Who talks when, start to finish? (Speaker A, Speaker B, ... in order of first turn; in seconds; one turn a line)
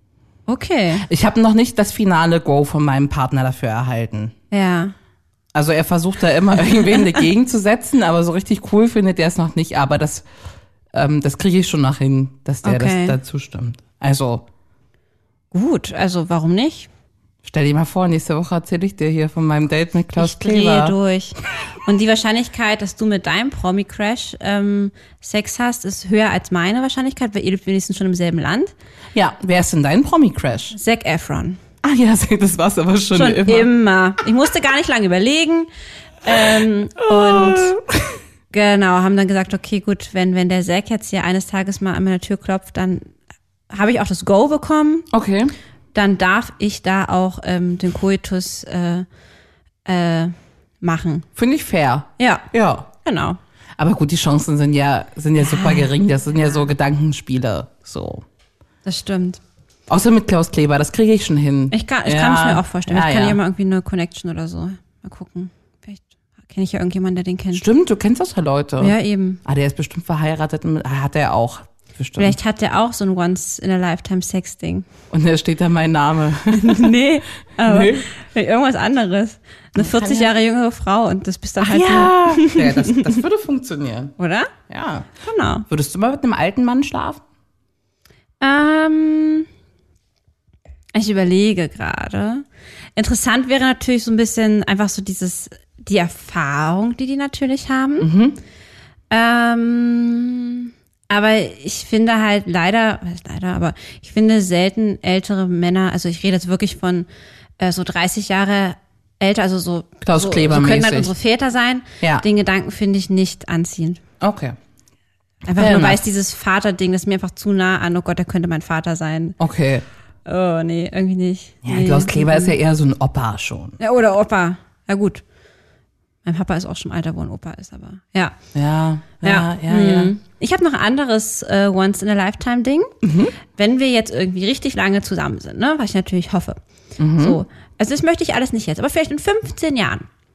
Speaker A: 0.5-1.0
Speaker B: 1.0-4.3
Speaker A: 4.5-4.9
Speaker B: 5.5-10.2
Speaker B: 10.9-14.4
Speaker A: 12.6-13.2
Speaker A: 15.5-16.9
Speaker B: 17.4-20.9
Speaker A: 20.2-28.7
Speaker B: 29.1-30.8
Speaker A: 30.7-31.6
Speaker B: 31.8-33.7
Speaker A: 33.1-35.7
Speaker A: 36.2-37.7
Speaker B: 37.0-38.2
Speaker A: 38.5-43.1
Speaker A: 43.7-45.1
Speaker B: 45.1-45.5
Speaker A: 45.9-49.0
Speaker A: 49.8-51.3
Speaker B: 51.4-52.9
Speaker A: 52.2-52.5
Speaker A: 53.0-53.4
Speaker B: 53.8-58.2
Speaker A: 55.4-55.9
Speaker A: 58.8-59.4
Speaker B: 59.9-63.4
Speaker A: 61.7-67.6
Speaker B: 67.5-72.3
Speaker A: 68.8-69.4
Speaker A: 72.2-74.9
Speaker B: 75.1-76.9
Speaker A: 76.5-83.2
Speaker B: 77.6-78.1
Speaker B: 79.8-80.3
Speaker B: 81.6-84.1
Speaker A: 84.2-84.5
Speaker B: 84.7-85.1
Speaker A: 85.2-85.7
Speaker B: 85.7-87.2
Speaker A: 88.4-89.5
Speaker A: 90.9-92.4
Speaker A: 93.0-98.1
Speaker B: 98.0-98.4
Speaker A: 99.1-107.1
Speaker A: 107.6-114.0
Speaker B: 110.0-111.1
Speaker B: 114.2-114.6
Speaker A: 115.5-119.3
Speaker B: 115.5-116.1
Speaker B: 119.4-119.8
Speaker A: 120.2-122.5
Speaker B: 121.6-123.8
Speaker A: 123.8-125.2
Speaker A: 126.2-128.3
Speaker B: 128.5-130.1
Speaker A: 129.2-132.9
Speaker B: 133.0-133.3
Speaker A: 133.5-136.6
Speaker B: 137.0-137.4
Speaker A: 137.2-140.1